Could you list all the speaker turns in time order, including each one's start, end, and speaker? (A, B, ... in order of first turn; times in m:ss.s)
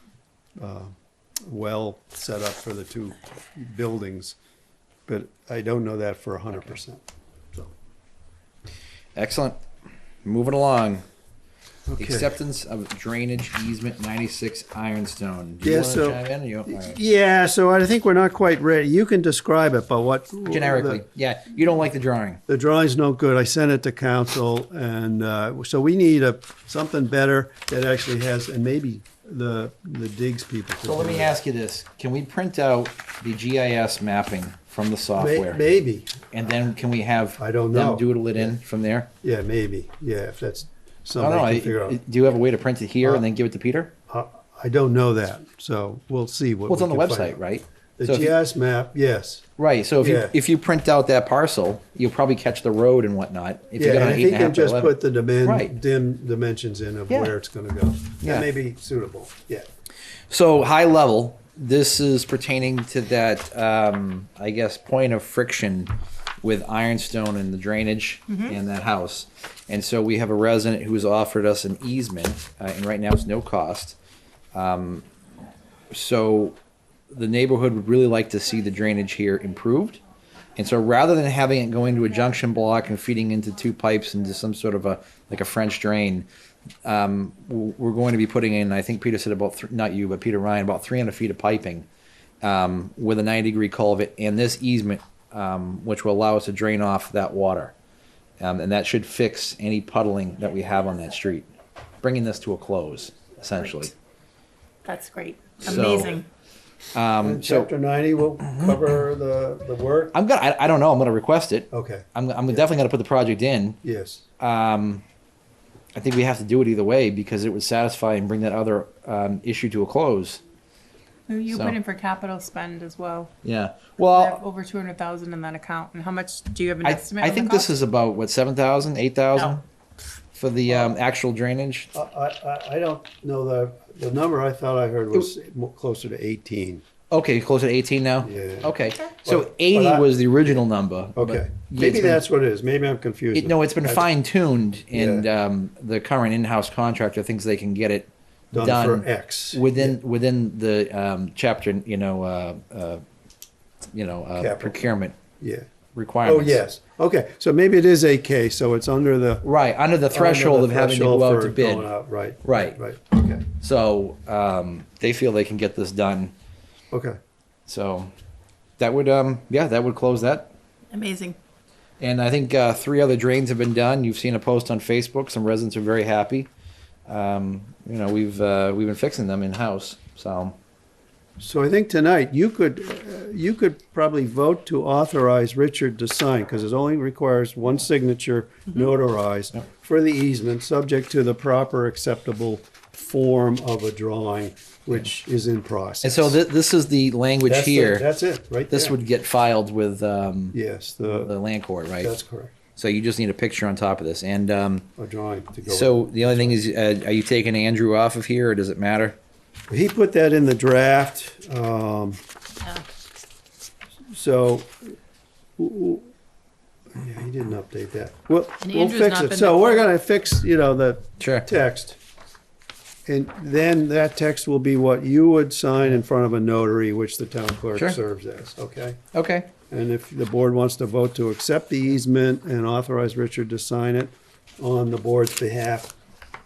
0:00.6-0:00.9 A
0:01.5-0:04.4 A
0:05.1-0:07.7 A
0:09.1-0:09.6 B
0:10.2-0:11.0 B
0:11.9-0:12.3 A
0:12.0-0:17.0 B
0:15.6-0:21.0 A
0:20.5-0:22.4 B
0:22.5-0:31.4 A
0:30.8-0:35.6 B
0:35.1-0:36.2 A
0:36.3-0:39.1 B
0:37.4-0:38.5 A
0:39.2-0:42.0 A
0:41.2-0:43.9 B
0:44.1-0:47.4 A
0:46.7-0:48.3 B
0:48.0-0:49.4 A
0:49.6-0:55.7 B
0:50.0-0:50.3 A
0:53.8-0:59.7 A
0:57.1-0:57.3 B
0:58.2-0:58.5 B
1:00.3-1:14.0 B
1:08.3-1:08.6 C
1:14.5-1:15.0 B
1:15.9-1:16.6 B
1:17.1-1:20.0 B
1:20.6-1:26.3 B
1:26.8-1:31.9 B
1:32.4-1:37.7 B
1:38.4-1:41.5 B
1:42.0-1:43.9 B
1:44.8-1:46.3 C
1:45.6-1:46.2 B
1:46.9-1:47.7 B
1:47.2-1:50.2 A
1:50.1-1:53.8 B
1:51.7-1:52.7 A
1:53.8-1:54.2 A
1:54.4-1:55.0 B
1:56.0-2:00.4 B
2:01.3-2:03.3 C
2:01.5-2:01.8 B
2:03.4-2:04.4 B
2:04.0-2:07.7 C
2:06.8-2:09.6 B
2:10.3-2:11.9 B
2:10.7-2:11.0 A
2:11.9-2:16.8 A
2:17.1-2:22.2 B
2:18.2-2:20.1 A
2:21.1-2:24.1 A
2:23.3-2:33.0 B
2:24.9-2:25.3 A
2:28.5-2:30.0 A
2:33.9-2:35.1 B
2:34.4-2:34.8 A
2:35.4-2:35.7 A
2:35.9-2:36.6 B
2:36.2-2:39.4 A
2:39.4-2:41.9 B
2:40.1-2:43.5 A
2:42.4-2:42.8 B
2:43.6-2:46.3 B
2:46.9-2:47.2 A
2:47.7-2:48.1 B
2:48.8-2:50.5 B
2:50.9-2:51.4 C
2:52.0-2:56.5 B
2:57.1-3:00.6 B
3:01.4-3:16.4 A
3:16.0-3:18.0 B
3:17.4-3:18.9 A
3:18.7-3:22.1 B
3:20.5-3:21.3 A
3:22.0-3:22.5 A
3:22.8-3:24.9 B
3:25.0-3:26.6 A
3:25.7-3:29.2 B
3:29.7-3:32.2 A
3:34.1-3:34.9 A
3:35.6-3:36.1 A
3:36.9-3:42.0 A
3:38.6-3:39.8 C
3:41.2-3:41.5 B
3:43.1-3:49.0 A
3:49.1-3:49.5 B
3:49.7-3:55.9 A